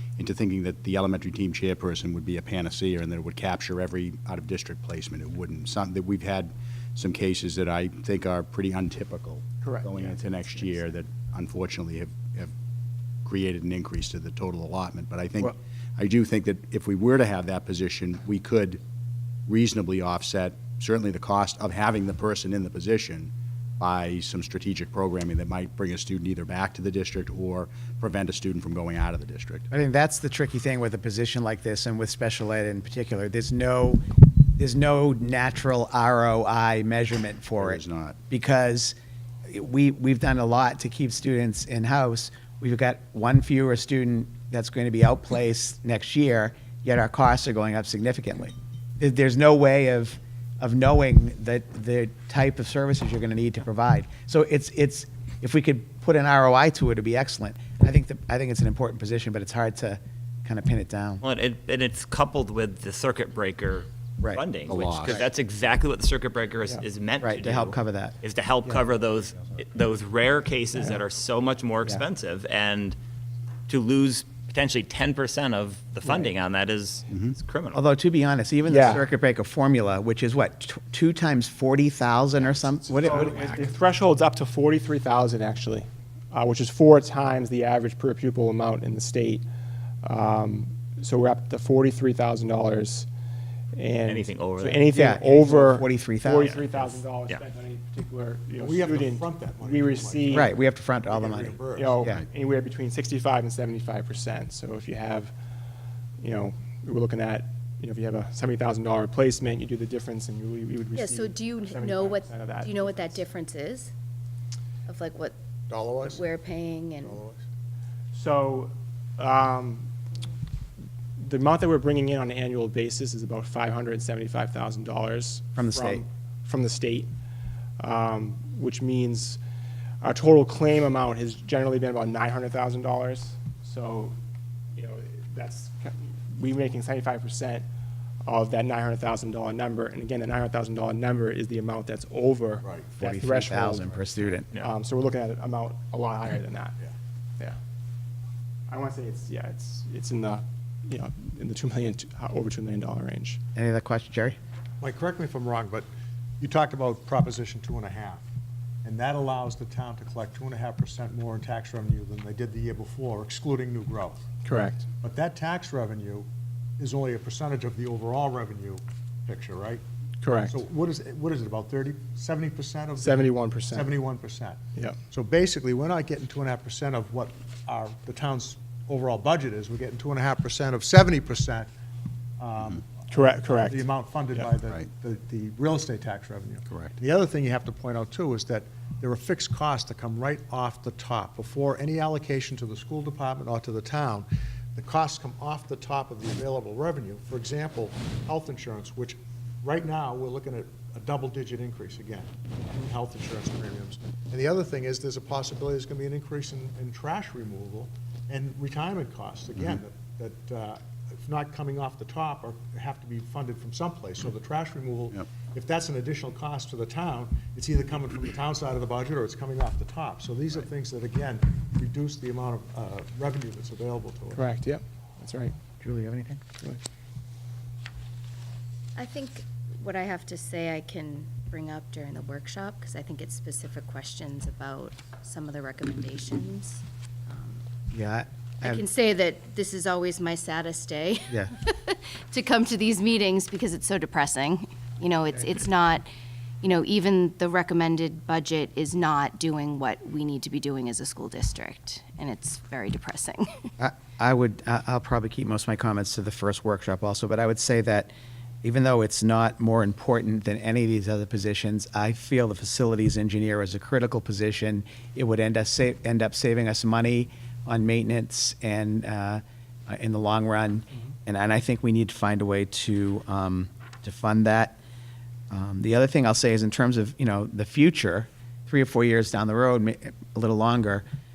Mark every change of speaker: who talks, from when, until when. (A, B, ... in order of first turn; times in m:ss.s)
0:00.2-0:12.5 A
0:09.6-0:09.9 B
0:13.2-0:18.8 A
0:19.5-0:29.7 A
0:29.7-0:34.0 C
0:34.6-0:39.0 C
0:37.6-0:38.2 A
0:39.5-1:01.2 C
1:01.2-1:13.0 D
1:04.7-1:05.3 A
1:07.2-1:08.2 C
1:13.7-1:17.8 D
1:16.0-1:16.3 B
1:17.7-1:23.6 C
1:18.7-1:19.0 B
1:22.8-1:29.4 B
1:30.0-1:33.1 B
1:33.7-1:40.5 B
1:34.1-1:35.0 D
1:34.9-1:36.6 C
1:36.8-1:37.4 D
1:38.5-1:40.6 E
1:40.3-1:42.2 C
1:41.1-1:42.1 E
1:41.7-1:45.3 B
1:46.2-1:53.2 B
1:50.9-1:53.9 F
1:54.9-1:55.4 F
1:55.7-1:56.3 E
1:55.9-1:57.2 F
1:57.0-1:57.4 E
1:58.1-1:59.9 B
2:01.2-2:07.1 B
2:05.6-2:06.0 C
2:07.8-2:09.4 B
2:10.0-2:14.2 B
2:14.8-2:17.7 B
2:18.2-2:24.0 B
2:22.6-2:23.0 E
2:23.0-2:24.5 C
2:24.6-2:26.8 B
2:28.7-2:33.4 B
2:33.6-2:34.4 C
2:34.8-2:35.9 E
2:36.4-2:38.2 E
2:38.8-2:44.2 E
2:44.4-2:44.9 B
2:45.0-2:46.3 E
2:46.8-2:49.8 E
2:50.2-2:50.6 B
2:50.4-3:01.7 E
2:53.0-2:53.9 B
3:02.4-3:44.4 E
3:03.1-3:03.9 B
3:44.3-3:45.6 B
3:45.8-3:46.4 C
3:49.0-3:57.6 F
3:57.9-3:58.8 C
3:58.6-4:06.1 F
4:06.6-4:13.7 F
4:13.8-4:18.1 C
4:18.6-4:34.8 C
4:35.5-4:41.0 C